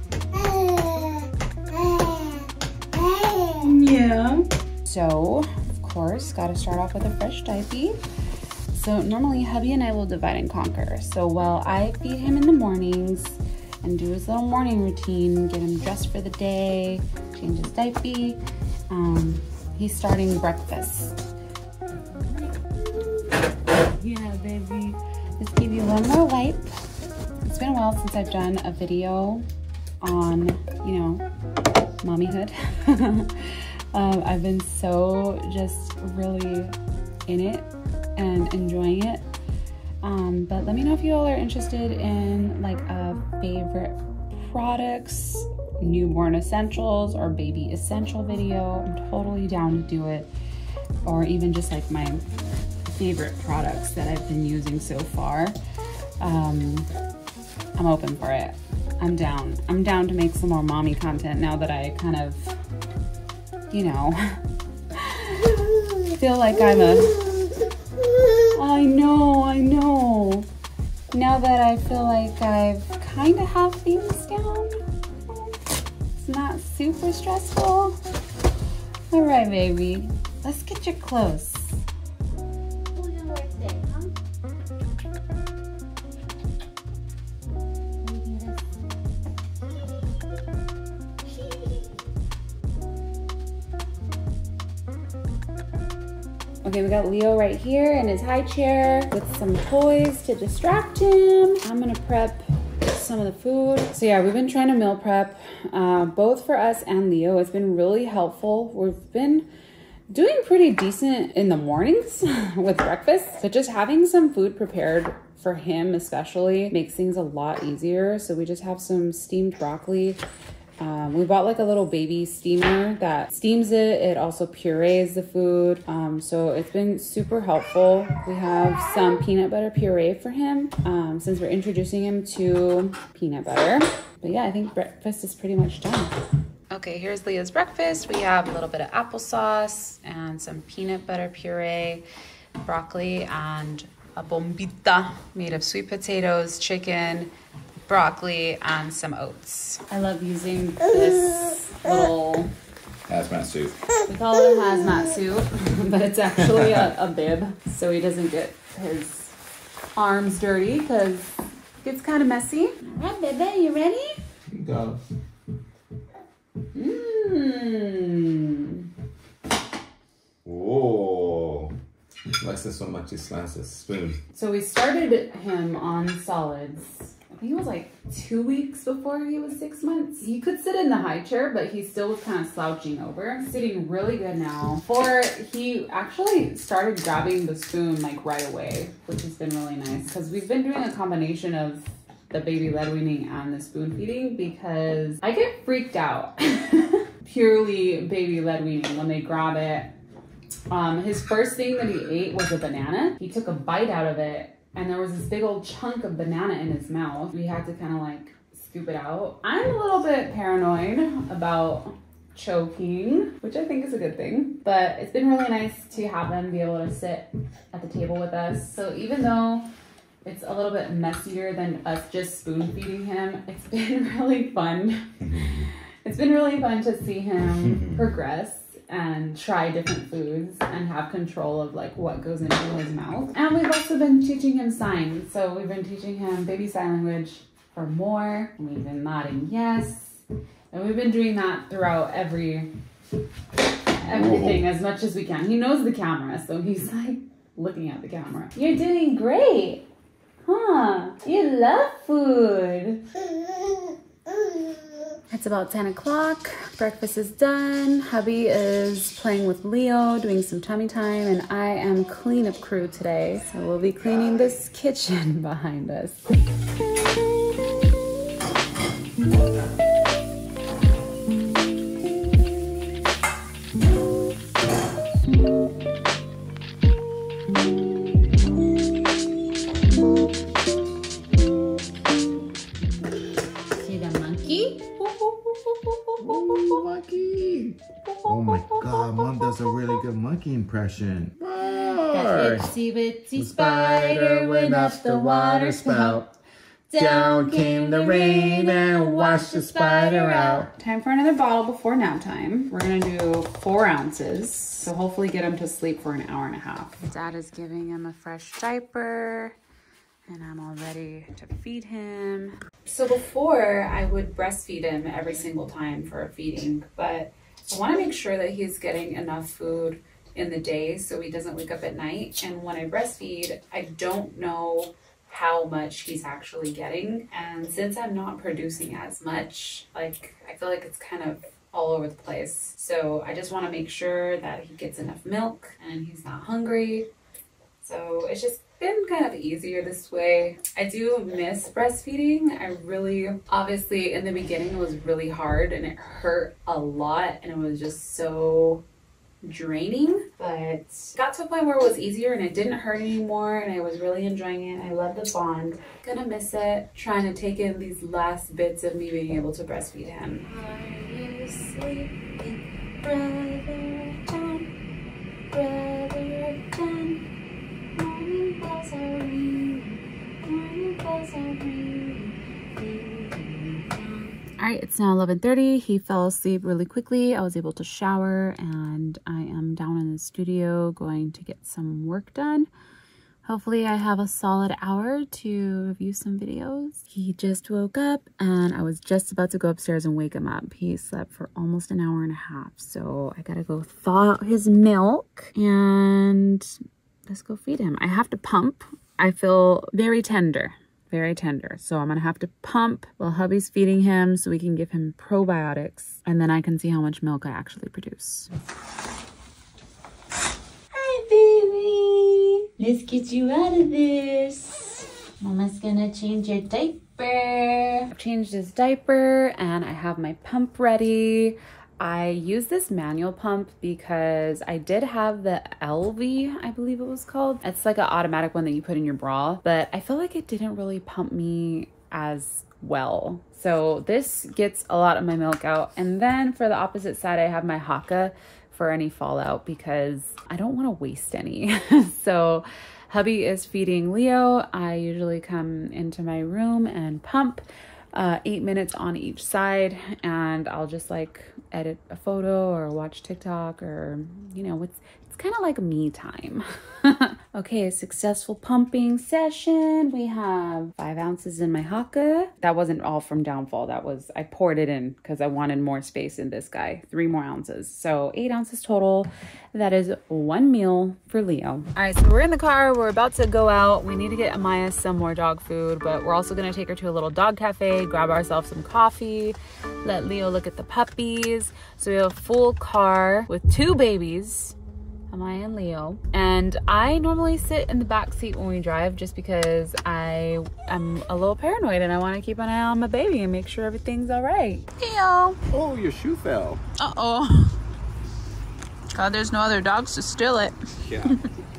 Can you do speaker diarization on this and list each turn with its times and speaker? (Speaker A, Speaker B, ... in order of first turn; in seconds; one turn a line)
Speaker A: 0.3-8.0
Speaker A: 8.7-18.4
Speaker A: 18.9-21.2
Speaker A: 22.2-26.7
Speaker A: 27.4-29.4
Speaker A: 30.0-31.2
Speaker A: 32.0-36.8
Speaker A: 37.3-39.2
Speaker A: 40.0-50.3
Speaker A: 51.0-52.2
Speaker A: 53.0-55.6
Speaker A: 56.2-56.9
Speaker A: 57.8-62.6
Speaker A: 63.7-64.4
Speaker A: 65.0-67.4
Speaker A: 68.5-70.5
Speaker A: 71.1-75.5
Speaker A: 76.2-78.0
Speaker A: 79.1-81.8
Speaker A: 83.0-84.1
Speaker A: 88.0-88.7
Speaker A: 91.2-91.9
Speaker A: 96.6-109.5
Speaker A: 110.1-120.2
Speaker A: 120.8-136.2
Speaker A: 136.7-142.1
Speaker A: 142.6-147.3
Speaker A: 147.9-152.5
Speaker B: 153.1-153.7
Speaker A: 154.1-159.4
Speaker A: 160.0-164.2
Speaker B: 164.5-165.0
Speaker A: 166.7-168.9
Speaker B: 170.4-171.7
Speaker B: 172.4-174.2
Speaker A: 174.3-199.9
Speaker A: 200.7-219.7
Speaker A: 220.2-242.7
Speaker A: 243.9-249.9
Speaker B: 244.2-244.5
Speaker A: 250.5-253.1
Speaker A: 255.3-266.2
Speaker A: 283.7-286.8
Speaker B: 286.2-292.7
Speaker A: 288.1-290.0
Speaker A: 291.6-296.2
Speaker B: 293.4-296.3
Speaker A: 296.9-309.6
Speaker B: 297.0-300.7
Speaker A: 310.3-337.1
Speaker A: 337.8-348.8
Speaker A: 349.4-364.7
Speaker A: 365.5-367.2
Speaker A: 367.9-382.7
Speaker A: 383.5-396.7
Speaker A: 397.3-408.5
Speaker A: 410.9-484.8
Speaker A: 485.3-495.6
Speaker B: 495.7-496.8
Speaker A: 497.0-497.8
Speaker A: 499.1-501.4
Speaker B: 501.1-501.3